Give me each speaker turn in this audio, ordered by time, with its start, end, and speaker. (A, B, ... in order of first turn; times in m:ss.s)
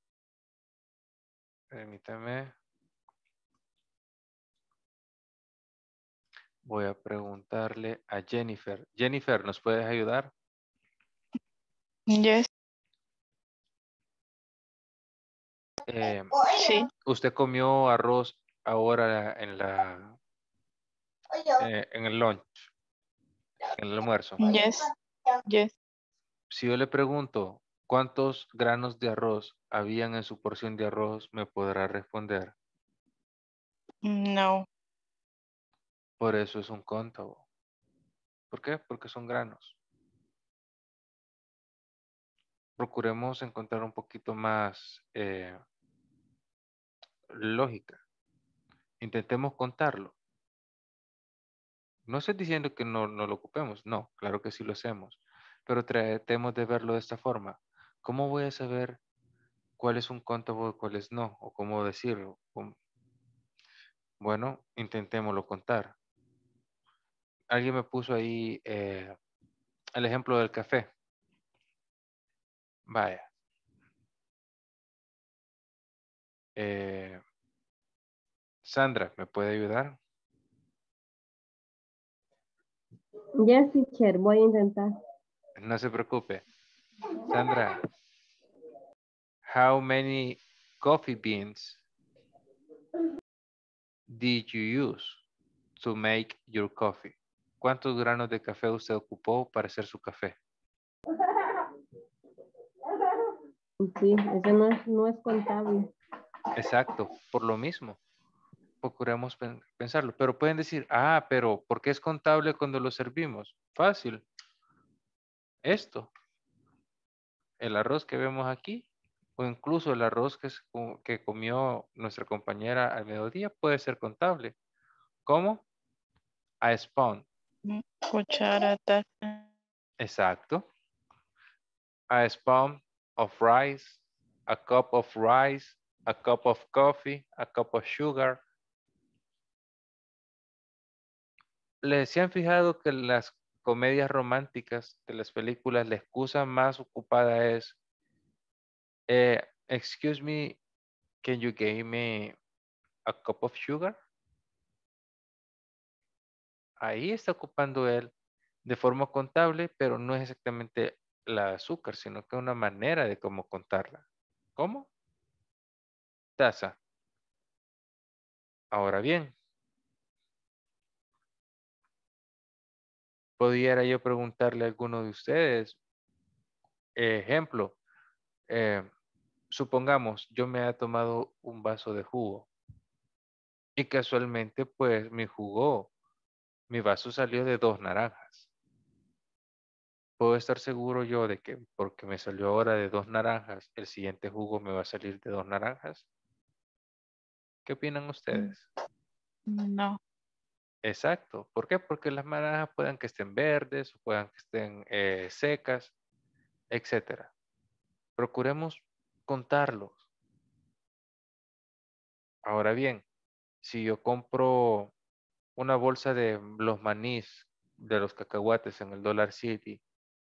0:01.7-0:02.5 A
0:06.6-0:10.3 A
0:12.1-0:12.5 B
0:15.8-0:16.4 A
0:16.5-0:16.9 B
0:17.0-0:20.2 A
0:21.6-0:22.7 A
0:23.7-0:24.5 A
0:24.4-0:24.9 B
0:25.5-0:25.7 B
0:26.5-0:32.5 A
0:34.0-0:34.6 B
0:36.2-0:37.4 A
0:38.5-0:39.8 A
0:42.8-0:45.6 A
0:47.3-0:48.0 A
0:49.0-0:50.1 A
0:52.1-0:59.0 A
0:59.8-1:02.7 A
1:04.2-1:05.9 A
1:07.5-1:09.2 A
1:09.9-1:10.9 A
1:12.9-1:13.2 A
1:16.6-1:17.2 A
1:18.6-1:20.0 A
1:23.4-1:24.9 C
1:25.6-1:26.4 A
1:27.2-1:27.8 A
1:29.4-1:31.8 A
1:34.1-1:35.2 A
1:35.8-1:40.4 A
1:43.8-1:45.9 C
1:46.5-1:48.0 A
1:48.8-1:54.2 A
1:55.6-1:56.1 A
1:57.6-1:58.8 A
1:59.4-2:04.5 A
2:05.2-2:05.6 A
2:06.6-2:07.2 A
2:07.6-2:09.4 B
2:10.0-2:10.6 A
2:12.1-2:18.4 A
2:21.8-2:27.8 A
2:29.1-2:30.6 A
2:31.2-2:32.3 A
2:33.0-2:34.0 A
2:36.8-2:38.1 A
2:38.6-2:44.0 A
2:44.6-2:44.9 A
2:46.4-2:46.8 A
2:48.7-2:49.3 A
2:53.4-2:55.8 A
2:57.0-2:57.8 A
2:58.5-2:58.9 A
2:59.5-3:02.5 A
3:03.8-3:05.9 A
3:06.7-3:08.5 A
3:10.2-3:16.1 A
3:17.6-3:18.6 A
3:19.5-3:20.0 B
3:20.8-3:25.9 A
3:26.7-3:27.3 A
3:28.2-3:30.0 A
3:32.4-3:33.0 A
3:33.6-3:34.9 A
3:35.6-3:39.8 A